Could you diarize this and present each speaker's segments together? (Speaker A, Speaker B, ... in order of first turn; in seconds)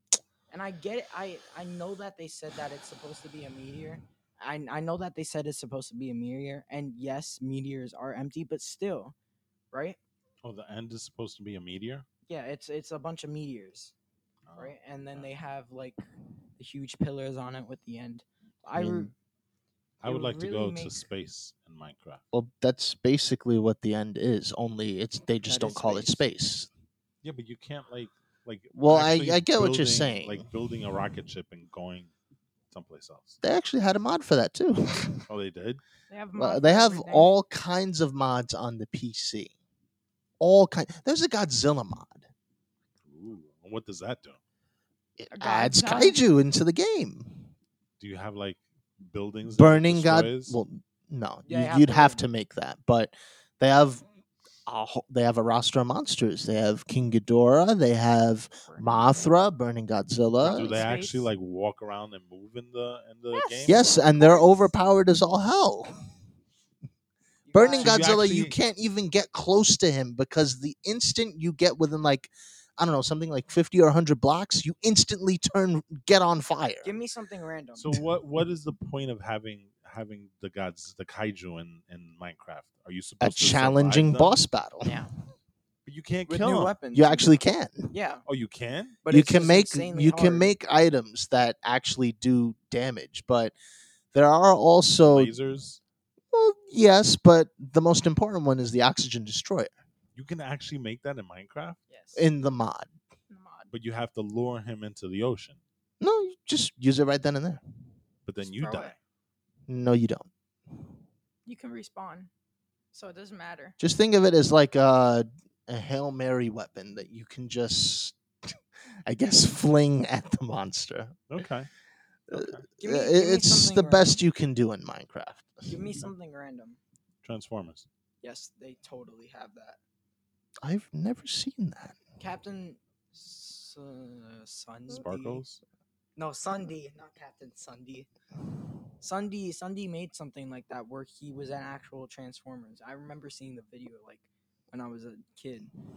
Speaker A: 0.5-9.2, 9.7-10.0, 12.3-13.9, 14.6-16.0, 16.6-19.1, 20.1-21.0, 25.4-26.3, 51.5-52.3, 67.5-68.1, 76.8-78.0, 84.8-85.1, 86.3-87.4, 87.9-88.2, 89.0-90.5, 108.6-108.9, 122.8-124.2, 125.7-126.8, 128.2-129.8, 132.2-135.4, 136.2-138.1, 139.0-145.7
Speaker B: 10.4-12.1, 14.5-15.3, 20.0-22.2, 27.2-32.1, 32.7-33.4, 35.3-35.8, 43.1-44.4, 48.0-50.6, 60.4-63.9, 67.8-68.6, 77.8-84.4, 85.8-86.7, 88.3-89.0, 95.0-95.8, 100.2-101.8, 103.7-105.6, 108.3-109.0, 121.3-121.7, 122.3-122.7, 127.2-127.9, 134.9-135.6
Speaker C: 18.8-19.1, 22.3-26.7, 28.7-30.5, 33.4-35.3, 36.4-39.5, 40.4-42.3, 45.2-47.5, 49.5-54.0, 54.7-60.9, 63.7-66.0, 67.5-76.9, 83.2-85.1, 86.9-87.9, 89.1-93.5, 94.1-95.3, 96.3-99.7, 102.2-102.9, 106.0-107.6, 109.7-110.3, 113.8-118.5, 119.1-121.2, 122.3-125.9, 130.6-132.0
Speaker D: 36.1-37.3, 45.3-46.2, 58.7-59.3, 60.5-61.3, 63.3-64.7, 101.9-102.2, 103.3-103.7, 111.5-112.3, 112.9-113.8